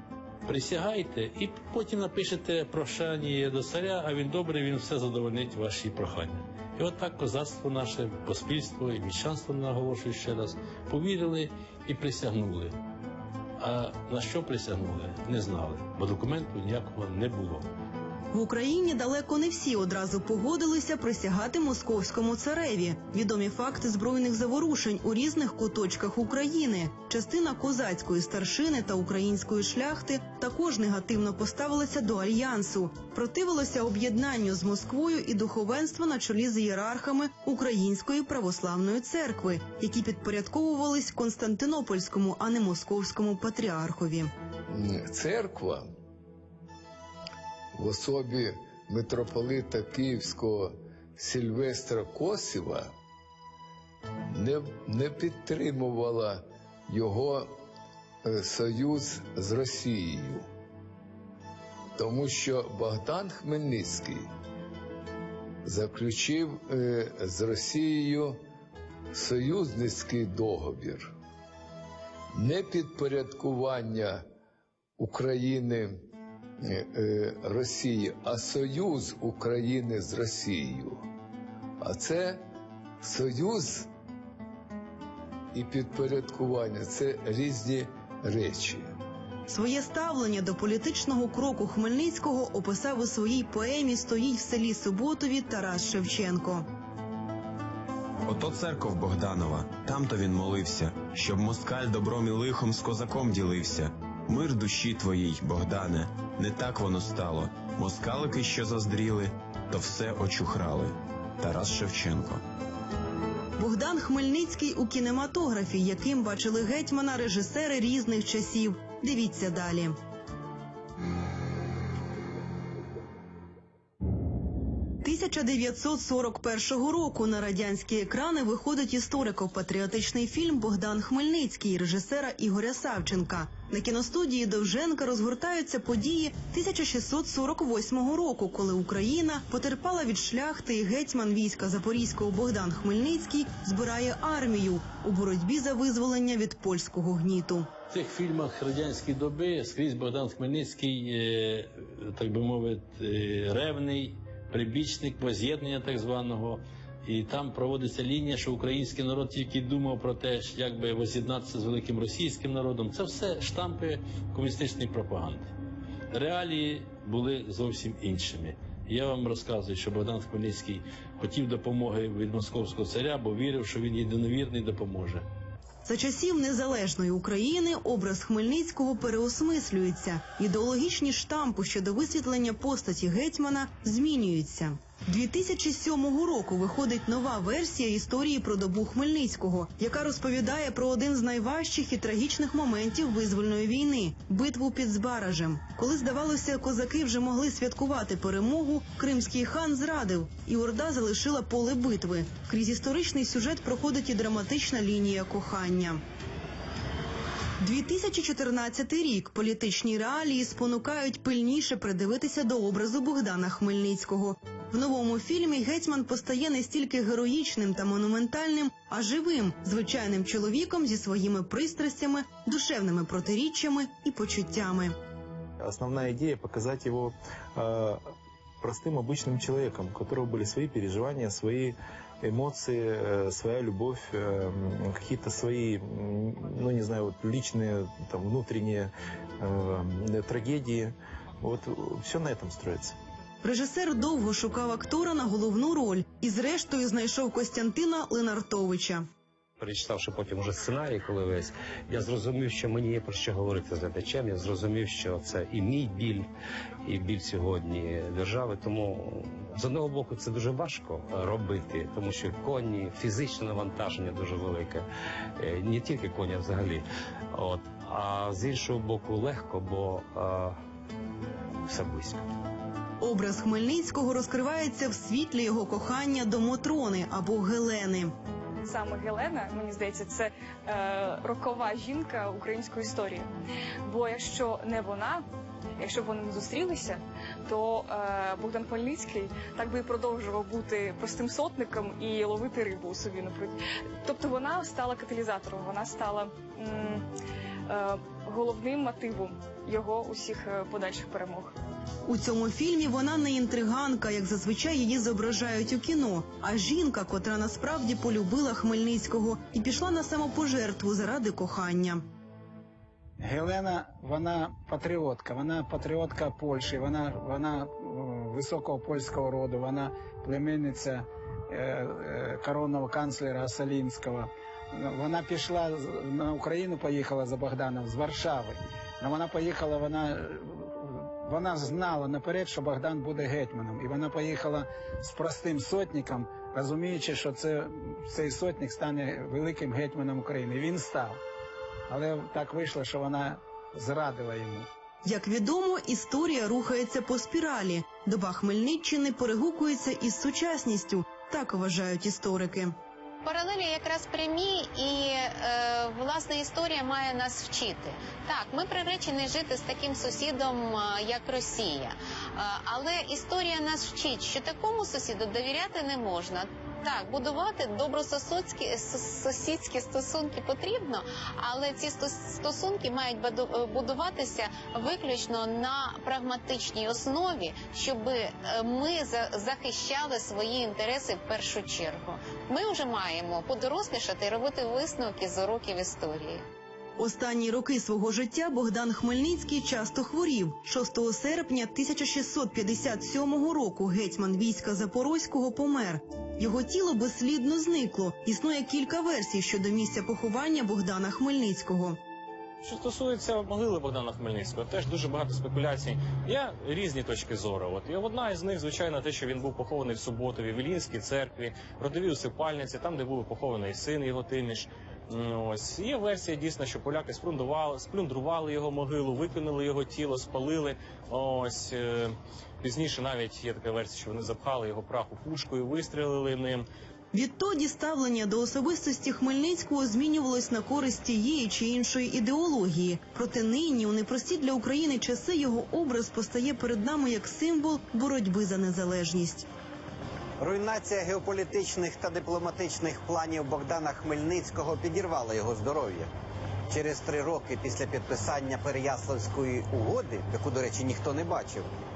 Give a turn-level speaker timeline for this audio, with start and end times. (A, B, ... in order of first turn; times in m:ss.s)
0:00.5-0:12.7 A
0:13.6-0:17.7 A
0:18.3-0:44.3 B
0:44.7-0:45.8 C
0:47.8-0:52.9 C
0:54.3-0:57.5 C
0:58.2-1:00.5 C
1:02.0-1:04.2 C
1:05.6-1:08.4 C
1:09.1-1:11.1 C
1:12.3-1:14.2 C
1:15.0-1:16.0 C
1:16.6-1:21.0 C
1:21.8-1:22.4 C
1:23.0-1:23.9 C
1:25.5-1:28.9 C
1:29.5-1:36.6 B
1:38.2-1:52.4 D
1:53.6-1:59.9 B
2:05.0-2:27.7 B
2:27.9-2:45.5 A
2:46.1-2:55.2 A
2:55.8-3:26.0 B
3:27.6-3:44.9 B
3:45.6-3:48.0 E
3:48.6-4:02.9 E
4:03.4-4:09.0 B
4:09.6-4:16.3 F
4:16.8-4:30.6 F
4:31.6-4:32.2 F
4:33.0-4:38.1 B
4:38.6-4:43.3 G
4:43.8-4:45.2 G
4:45.8-4:57.0 G
4:57.7-5:01.5 G
5:02.0-5:12.0 B
5:13.2-5:41.2 H
5:41.9-5:44.7 H
5:45.0-5:52.7 B
5:53.2-6:26.4 I
6:27.0-6:42.0 B
6:42.6-7:06.6 J
7:07.1-7:19.4 B
7:20.4-7:26.1 K
7:26.7-7:31.7 K